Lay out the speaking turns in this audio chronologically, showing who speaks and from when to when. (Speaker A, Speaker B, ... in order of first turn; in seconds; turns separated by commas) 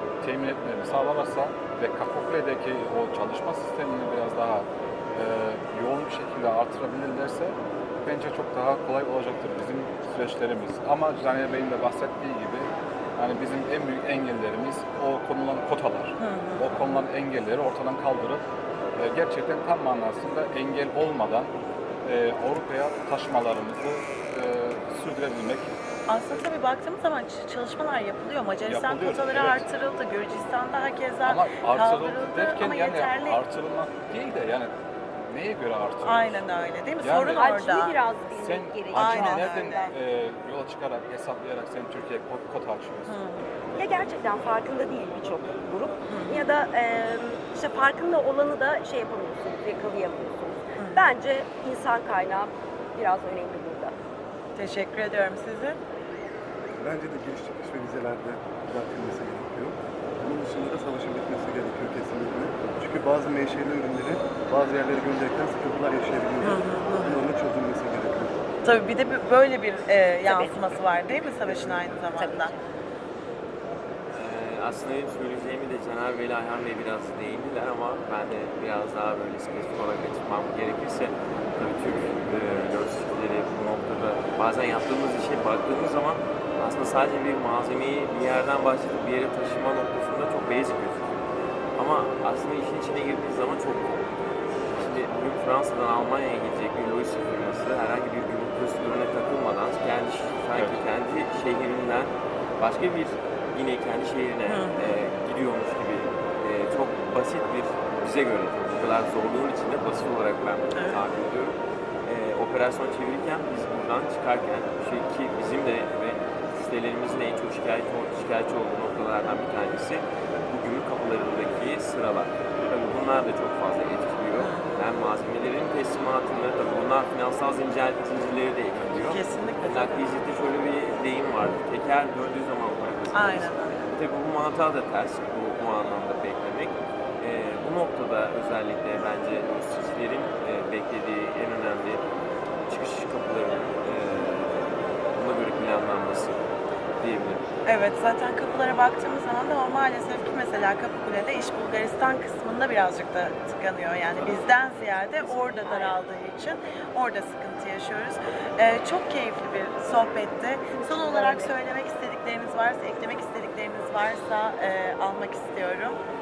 Speaker A: 0.2-18.4, Speaker B: 16.2-17.0, Speaker A: 19.0-21.5, Speaker A: 22.0-25.7, Speaker B: 26.1-33.4, Speaker A: 28.6-29.7, Speaker A: 31.2-36.5, Speaker B: 36.0-38.0, Speaker A: 37.0-37.5, Speaker C: 37.3-39.9, Speaker A: 38.4-43.2, Speaker B: 38.9-39.9, Speaker B: 43.1-43.4, Speaker C: 43.7-53.9, Speaker B: 46.1-46.5, Speaker B: 50.8-51.0, Speaker B: 54.6-55.8, Speaker D: 56.8-68.4, Speaker B: 66.4-67.2, Speaker B: 68.6-72.5, Speaker C: 70.2-70.6, Speaker D: 71.5-71.8, Speaker C: 72.2-72.6, Speaker E: 74.1-91.2, Speaker E: 91.8-94.1, Speaker E: 94.7-142.0, Speaker B: 104.5-105.0, Speaker B: 110.8-111.0, Speaker B: 124.4-124.7, Speaker B: 129.0-130.1, Speaker B: 133.1-133.9, Speaker E: 142.7-146.5, Speaker E: 147.0-147.5, Speaker B: 147.7-166.0, Speaker C: 154.9-156.0, Speaker C: 160.7-161.5